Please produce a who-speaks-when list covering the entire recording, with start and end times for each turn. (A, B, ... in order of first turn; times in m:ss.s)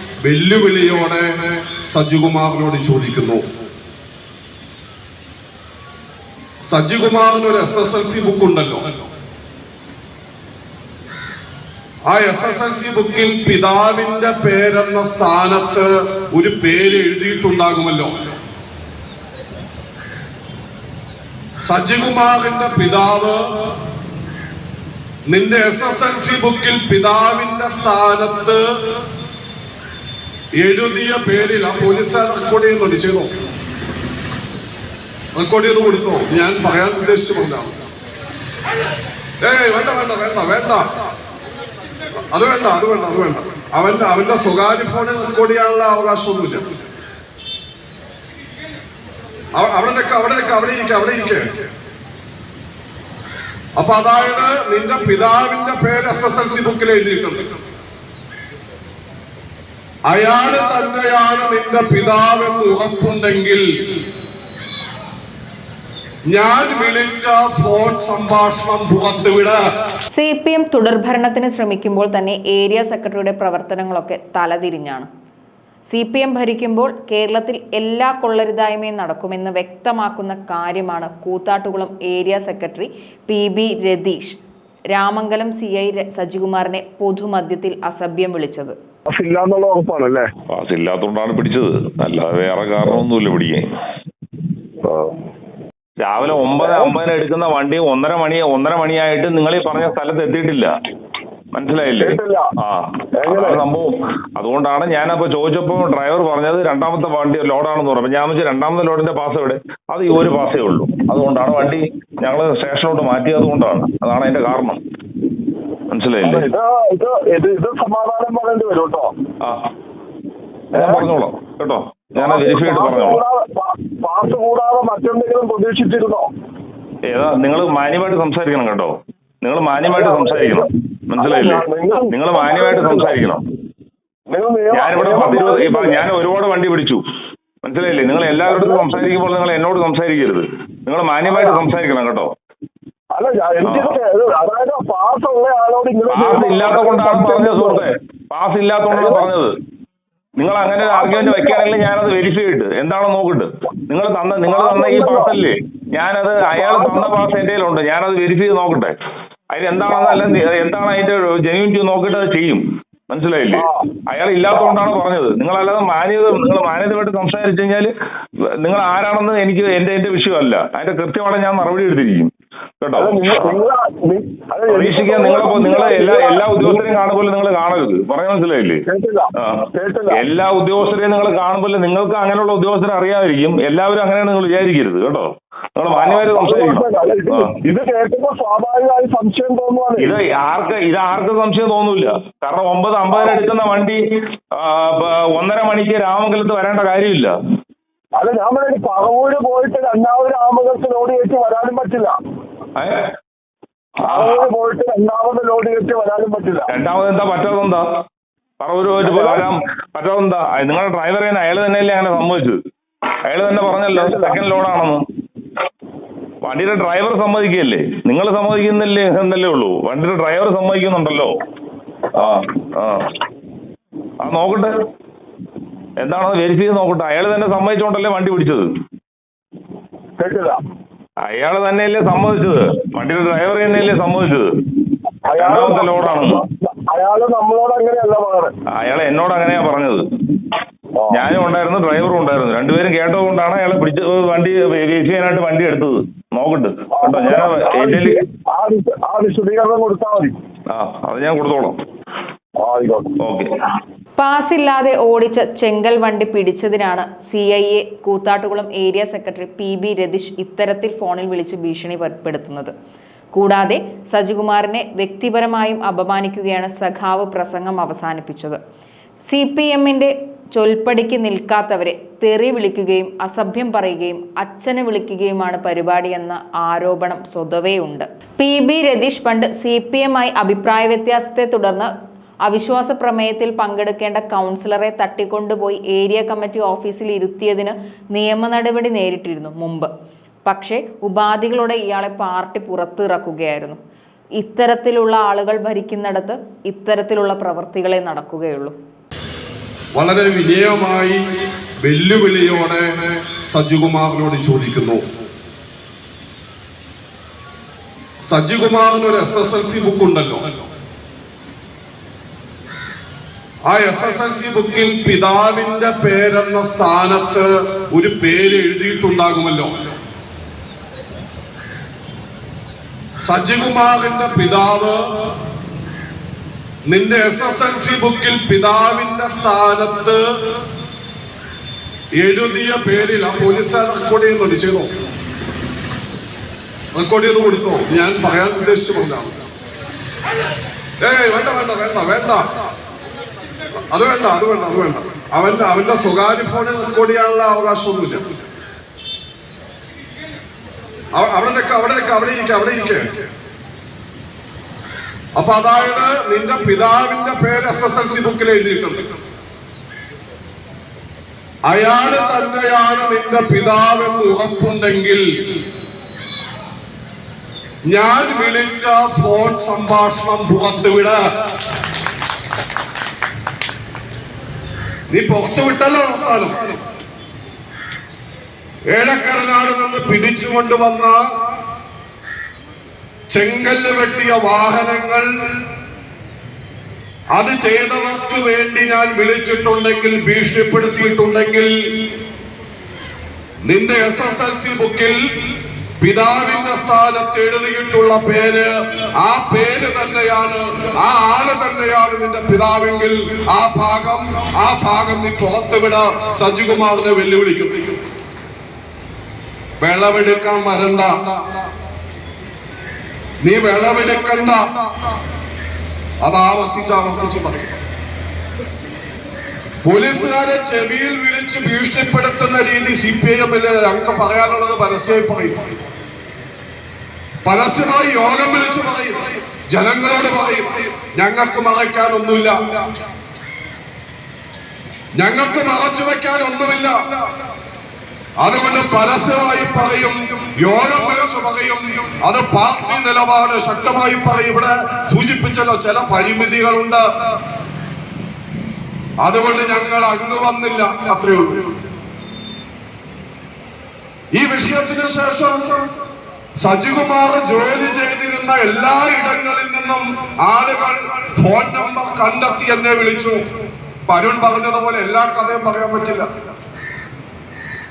0:00.2-0:01.3 A
0:01.9-0:03.4 A
0:06.7-0:08.9 A
0:12.1-0:18.1 A
0:21.6-0:23.4 A
0:25.3-0:28.6 A
0:30.6-0:33.3 A
0:35.4-0:37.7 A
0:39.4-0:40.8 A
0:42.3-0:46.6 A
0:49.5-0:51.4 A
0:53.8-0:57.4 A
1:00.1-1:03.6 A
1:06.3-1:09.6 A
1:10.1-1:15.1 B
1:15.9-1:24.4 B
1:24.9-1:28.8 B
1:29.1-1:30.3 C
1:30.5-1:33.6 D
1:36.0-1:40.7 D
1:36.6-1:36.9 C
1:41.5-1:54.8 D
1:42.0-1:42.5 C
1:43.1-1:43.6 C
1:55.9-1:56.4 D
1:56.2-1:59.1 C
1:59.4-1:59.7 D
2:00.7-2:03.2 D
2:00.7-2:01.0 C
2:02.2-2:06.3 C
2:07.0-2:13.4 D
2:09.8-2:13.2 C
2:14.3-2:16.0 C
2:14.7-2:17.0 D
2:17.6-2:22.3 D
2:18.5-2:19.1 C
2:21.2-2:21.6 C
2:23.1-2:27.8 C
2:23.6-2:24.0 D
2:26.1-2:29.5 D
2:28.9-2:29.2 C
2:30.4-2:38.9 D
2:30.9-2:31.6 C
2:34.4-2:35.3 C
2:36.6-2:37.1 C
2:39.5-2:47.9 D
2:43.5-2:43.9 C
2:48.6-2:53.4 D
2:53.0-2:56.9 C
2:54.7-2:58.8 D
2:58.9-3:00.2 C
2:59.4-3:07.5 D
3:05.9-3:10.2 C
3:10.0-3:14.0 D
3:14.6-3:17.3 D
3:18.2-3:22.1 C
3:22.8-3:23.0 D
3:24.0-3:24.4 D
3:24.0-3:26.7 C
3:26.7-3:27.9 D
3:28.6-3:32.6 D
3:29.0-3:29.4 C
3:33.2-3:35.0 D
3:33.9-3:34.4 C
3:36.4-3:41.3 D
3:42.2-3:43.1 D
3:44.2-3:44.7 D
3:46.0-3:48.7 D
3:50.2-3:50.6 C
3:51.2-3:54.5 D
3:55.2-3:58.5 C
3:55.4-3:56.4 D
3:58.7-4:00.0 D
4:01.0-4:01.3 C
4:01.1-4:08.2 D
4:06.9-4:10.3 C
4:10.7-4:11.8 D
4:12.6-4:13.2 C
4:13.2-4:13.5 D
4:14.2-4:22.7 B
4:23.3-4:28.6 B
4:29.3-4:41.9 B
4:42.4-4:49.9 B
4:50.4-4:53.8 B
4:54.4-4:58.8 B
4:59.9-5:01.2 A
5:01.8-5:02.9 A
5:03.4-5:05.0 A
5:08.3-5:10.5 A
5:13.7-5:19.7 A
5:23.2-5:25.0 A
5:26.9-5:30.2 A
5:32.2-5:34.9 A
5:36.9-5:39.4 A
5:41.0-5:42.4 A
5:43.9-5:48.2 A
5:51.1-5:53.0 A
5:55.3-5:59.0 A
6:01.7-6:05.2 A
6:07.9-6:11.2 A
6:15.1-6:16.8 A
6:18.9-6:21.2 A
6:23.3-6:25.3 A
6:27.3-6:31.7 A
6:33.6-6:35.2 A
6:36.0-6:48.0 A
6:49.8-6:51.3 A
6:53.4-6:54.6 A
6:56.2-6:57.7 A
6:59.8-7:05.7 A
7:07.4-7:12.6 A
7:15.2-7:17.0 A
7:18.4-7:27.0 A
7:29.2-7:31.6 A
7:34.3-7:35.8 A
7:36.6-7:43.4 A
7:44.1-7:46.3 A